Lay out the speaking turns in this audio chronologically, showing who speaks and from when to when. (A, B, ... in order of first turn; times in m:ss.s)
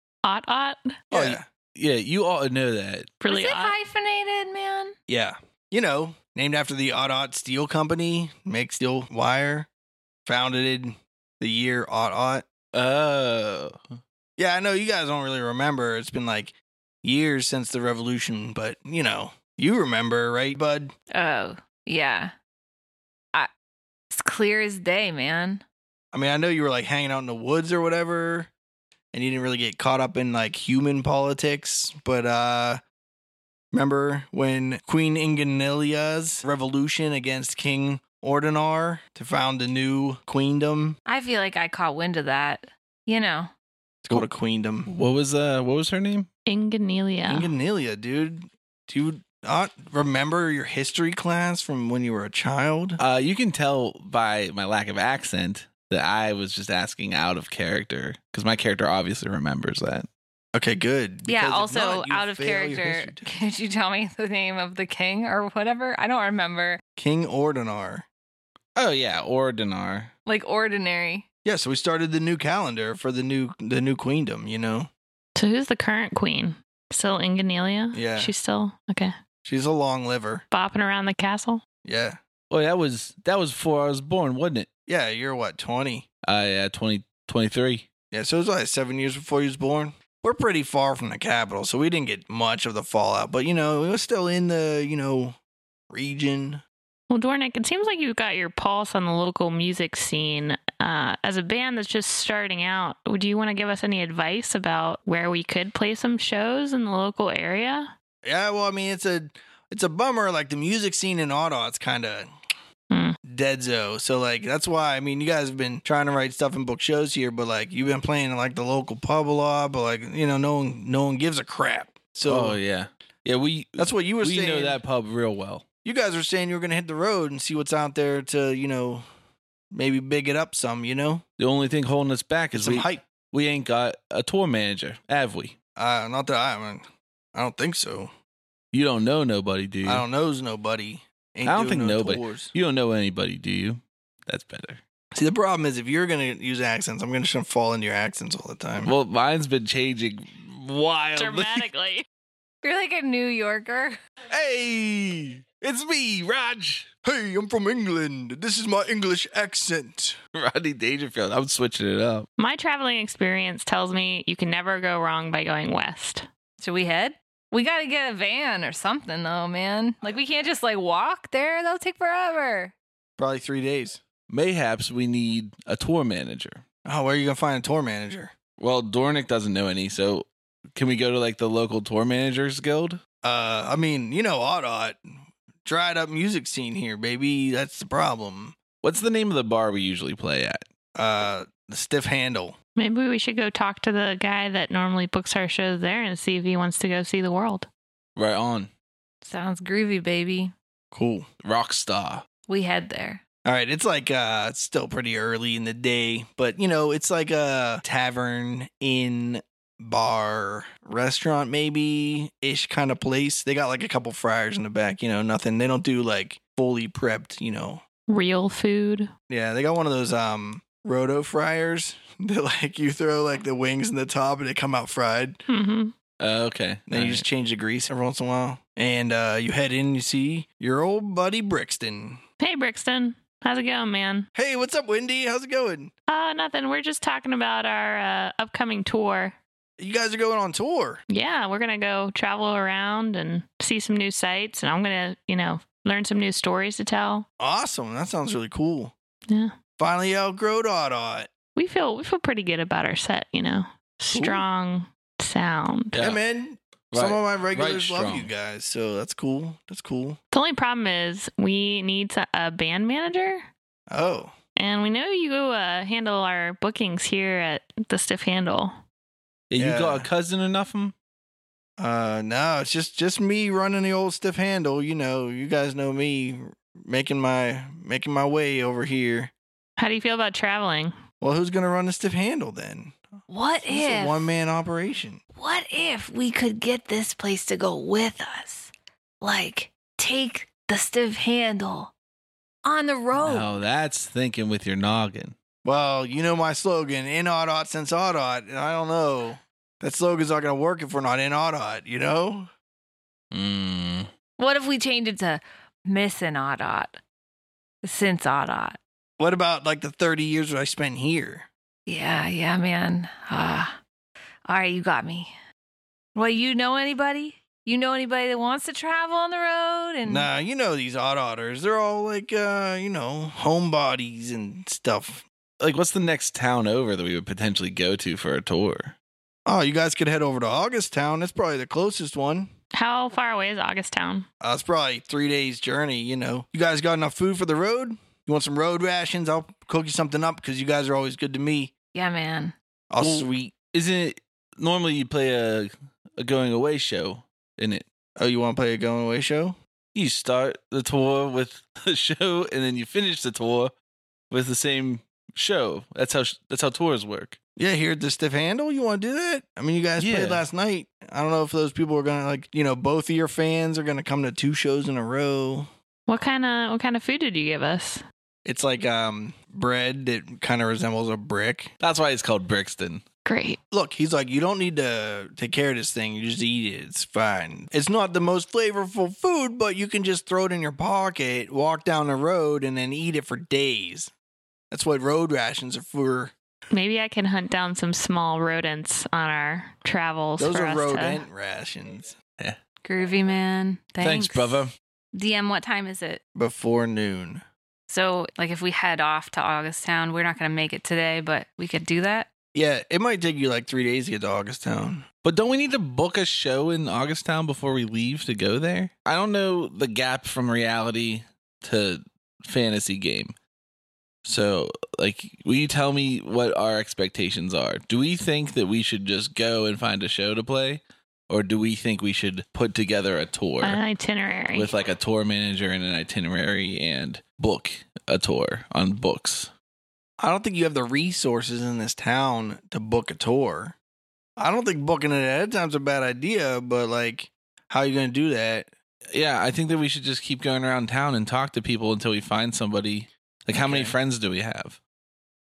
0:00.2-0:01.0 A
0:01.1-0:01.4 B
0:01.1-0:03.2 C
0:03.2-0:03.8 A
0:03.3-0:05.0 D
0:05.1-0:09.7 B
0:10.3-0:12.4 B
0:12.7-0:13.8 C
0:14.4-0:21.0 B
0:21.1-0:22.3 D
0:24.1-0:25.6 D
0:26.1-0:28.5 B
0:29.1-0:32.8 B
0:33.7-0:41.0 B
0:41.1-0:43.5 D
0:44.0-0:44.9 B
0:44.9-0:46.3 C
0:46.5-0:47.5 A
0:47.3-0:53.0 B
0:53.0-1:00.1 C
1:00.5-1:03.4 B
1:01.3-1:06.8 D
1:07.0-1:08.1 B
1:08.8-1:10.1 C
1:10.3-1:11.2 D
1:11.4-1:14.9 B
1:15.4-1:19.1 A
1:17.9-1:18.3 B
1:19.4-1:20.4 B
1:20.5-1:21.6 A
1:21.8-1:22.2 B
1:22.5-1:24.7 C
1:24.9-1:26.1 B
1:26.2-1:27.9 C
1:28.1-1:35.4 B
1:35.9-1:36.6 B
1:37.1-1:47.9 A
1:48.2-1:52.3 B
1:52.9-1:53.2 A
1:53.2-2:02.6 B
2:02.3-2:05.7 C
2:03.8-2:04.8 B
2:05.8-2:09.0 B
2:09.7-2:11.2 B
2:11.4-2:15.6 C
2:12.5-2:13.1 B
2:15.8-2:18.1 B
2:18.7-2:20.0 C
2:19.8-2:22.5 B
2:21.4-2:24.8 C
2:25.1-2:28.9 B
2:28.8-2:31.7 C
2:31.2-2:32.1 A
2:32.6-2:34.0 D
2:34.3-2:36.9 C
2:37.0-2:40.2 B
2:40.4-2:42.3 C
2:42.4-2:46.3 A
2:46.6-2:52.7 D
2:53.2-2:54.0 B
2:54.3-2:56.6 C
2:56.8-2:58.3 B
2:58.6-3:03.0 C
3:03.2-3:05.1 B
3:05.6-3:08.6 B
3:08.8-3:10.7 C
3:11.0-3:12.6 B
3:12.8-3:17.7 A
3:18.2-3:18.7 C
3:19.2-3:20.5 D
3:20.9-3:21.3 B
3:21.4-3:22.2 C
3:22.5-3:23.2 D
3:23.4-3:37.8 B
3:38.1-3:39.1 A
3:39.3-3:45.4 B
3:45.5-3:45.9 A
3:46.2-3:47.2 C
3:46.9-3:52.2 B
3:52.4-3:54.3 A
3:54.4-3:55.9 B
3:56.1-3:59.4 A
3:59.8-4:01.0 B
4:01.1-4:07.3 A
4:07.4-4:08.9 B
4:09.3-4:09.5 A
4:09.8-4:11.3 B
4:11.6-4:16.0 A
4:14.1-4:14.4 B
4:16.0-4:20.2 B
4:16.9-4:18.3 C
4:20.3-4:23.5 A
4:23.9-4:24.3 B
4:24.6-4:28.8 A
4:29.5-4:31.0 C
4:29.6-4:30.1 B
4:31.8-4:39.3 B
4:39.8-4:40.9 A
4:41.2-4:43.0 B
4:43.3-4:44.3 D
4:43.6-4:45.2 B
4:45.4-4:51.9 D
4:52.6-4:53.5 D
4:53.2-4:55.4 C
4:55.6-5:02.5 B
5:03.3-5:04.1 C
5:04.4-5:07.0 D
5:07.8-5:08.8 D
5:09.2-5:11.5 B
5:11.9-5:13.8 D
5:14.5-5:15.3 D
5:16.2-5:20.3 D
5:20.0-5:25.2 B
5:25.6-5:29.0 C
5:29.5-5:32.5 B
5:32.7-5:34.3 A
5:34.4-5:41.7 B
5:41.9-5:42.6 D
5:42.9-5:43.6 B
5:43.0-5:47.9 C
5:48.2-5:49.6 B
5:50.0-5:53.7 C
5:54.3-5:57.4 C
5:57.6-6:05.7 B
6:00.0-6:00.4 C
6:06.1-6:08.0 A
6:08.4-6:11.7 B
6:11.8-6:13.0 C
6:13.2-6:13.6 A
6:13.7-6:24.1 B
6:24.7-6:26.3 B
6:26.7-6:31.2 A
6:30.4-6:32.1 B
6:32.8-6:36.2 D
6:34.0-6:34.8 C
6:36.4-6:37.4 B
6:37.9-6:42.3 D
6:42.5-6:45.1 B
6:45.2-6:53.4 C
6:54.2-7:03.8 C
7:03.6-7:04.7 A
7:04.5-7:09.5 C
7:10.2-7:13.8 B
7:14.4-7:18.7 B
7:19.1-7:24.8 C
7:23.5-7:24.0 B